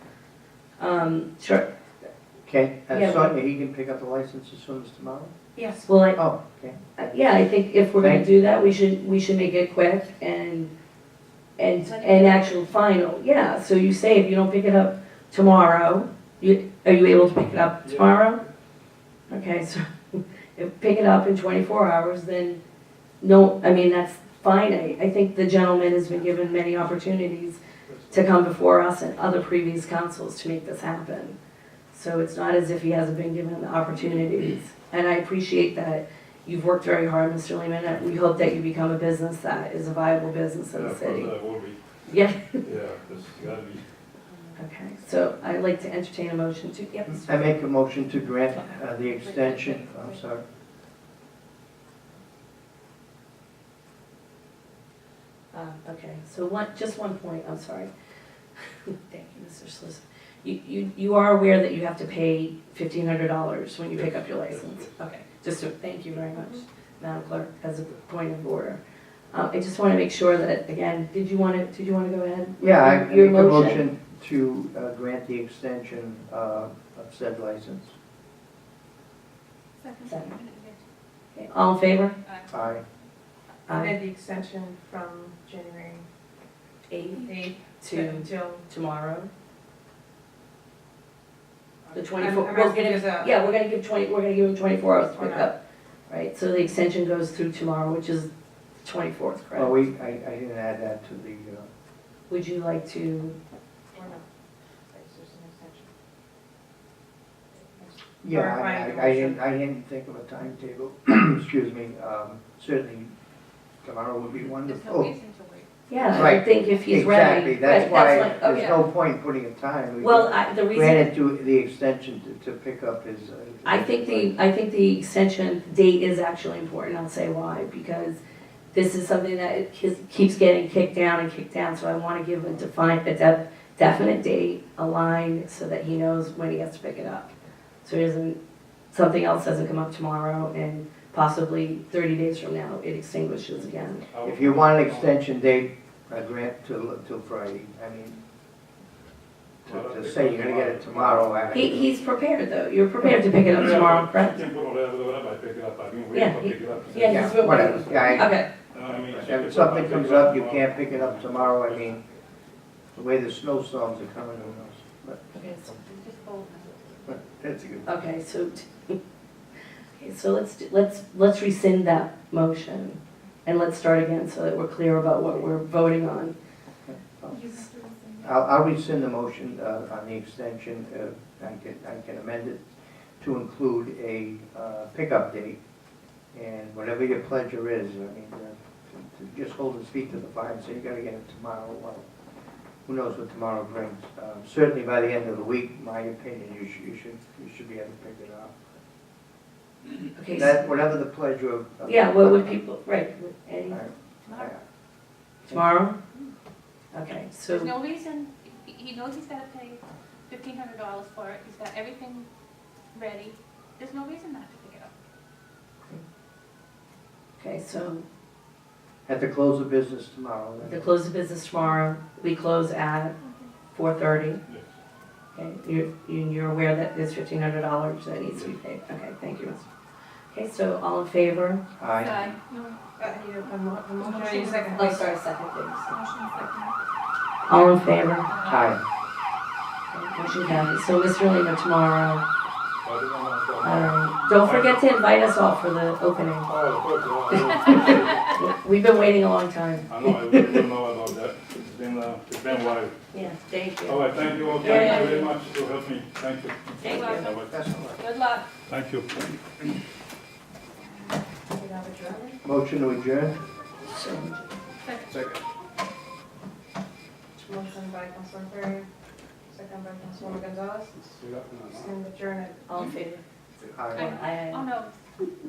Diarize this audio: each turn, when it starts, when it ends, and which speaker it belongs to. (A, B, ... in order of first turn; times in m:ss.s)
0:00.8-0:01.7 A
0:02.5-0:05.3 B
0:02.9-0:03.3 A
0:05.6-0:05.9 C
0:05.9-0:06.2 A
0:06.2-0:06.8 B
0:07.0-0:10.7 A
0:08.0-0:08.3 B
0:11.6-0:18.4 A
0:17.8-0:18.5 D
0:19.3-0:22.6 A
0:23.2-0:27.6 A
0:27.9-0:28.2 D
0:28.1-0:31.4 A
0:31.9-0:41.3 A
0:40.7-0:41.9 D
0:42.1-0:42.6 A
0:42.6-0:43.8 D
0:44.6-0:47.3 A
0:47.2-0:50.4 B
0:49.2-0:50.0 C
0:55.5-0:57.9 A
0:58.9-1:08.8 A
1:03.9-1:05.0 D
1:06.4-1:06.6 C
1:09.3-1:13.8 A
1:12.6-1:17.9 B
1:19.8-1:20.8 E
1:20.1-1:20.3 A
1:21.3-1:22.2 A
1:22.5-1:22.8 B
1:23.7-1:23.9 A
1:23.7-1:26.1 C
1:26.9-1:29.3 A
1:27.2-1:28.7 C
1:31.9-1:38.3 A
1:32.0-1:33.4 C
1:35.1-1:35.5 C
1:38.8-1:39.8 A
1:39.6-1:41.7 B
1:42.3-1:43.4 A
1:43.9-1:44.3 C
1:44.9-1:45.9 C
1:47.8-1:49.4 C
1:48.2-1:53.1 B
1:53.8-1:55.1 B
1:54.7-1:56.2 E
1:55.9-1:58.8 A
1:56.1-2:04.4 B
2:00.0-2:01.1 A
2:03.6-2:08.2 A
2:08.7-2:17.3 A
2:17.8-2:18.4 A
2:18.9-2:24.0 A
2:24.1-2:25.2 D
2:24.2-2:28.2 B
2:29.6-2:31.9 B
2:29.7-2:31.9 D
2:31.5-2:34.4 A
2:33.5-2:37.3 D
2:36.1-2:38.5 A
2:37.0-2:38.4 B
2:38.7-2:41.9 D
2:38.9-2:42.0 B
2:43.0-2:45.8 B
2:45.3-2:45.7 A
2:46.0-2:46.7 E
2:47.1-2:47.9 B
2:47.9-2:49.0 A
2:50.0-2:56.4 A
2:56.9-2:57.7 B
2:57.3-2:58.3 E
2:58.2-3:02.7 B
3:03.2-3:05.6 B
3:06.3-3:12.1 B
3:12.9-3:18.7 B
3:20.2-3:20.7 A
3:20.3-3:22.6 B
3:21.8-3:23.8 A
3:23.7-3:24.6 B
3:25.5-3:26.0 A
3:26.9-3:27.7 A
3:27.6-3:32.3 E
3:32.9-3:34.7 E
3:37.4-3:38.0 A
3:39.1-3:40.9 B
3:40.6-3:43.2 A
3:43.7-3:44.4 A
3:45.4-3:49.6 A
3:50.3-3:51.6 A
3:51.8-3:52.4 B
3:52.1-3:52.8 E
3:53.0-3:55.1 C
3:54.0-3:54.7 E
3:54.8-3:56.0 A
3:55.9-3:56.7 E
3:57.5-3:58.3 A
3:58.5-3:58.8 B
3:59.9-4:02.2 A
4:02.8-4:04.8 D
4:03.6-4:06.5 A
4:06.4-4:08.3 D
4:08.4-4:10.4 A
4:09.9-4:13.0 D
4:13.1-4:15.3 A
4:13.9-4:17.5 D
4:16.8-4:17.3 A
4:17.5-4:18.0 B
4:18.0-4:18.4 E
4:18.7-4:19.3 D
4:21.5-4:22.4 C
4:22.4-4:23.4 B
4:23.9-4:24.5 A
4:24.8-4:25.1 E
4:27.4-4:28.9 C
4:29.5-4:31.0 C
4:31.7-4:32.6 C
4:32.7-4:33.2 A
4:33.7-4:34.2 B
4:33.9-4:34.7 A
4:34.1-4:34.9 E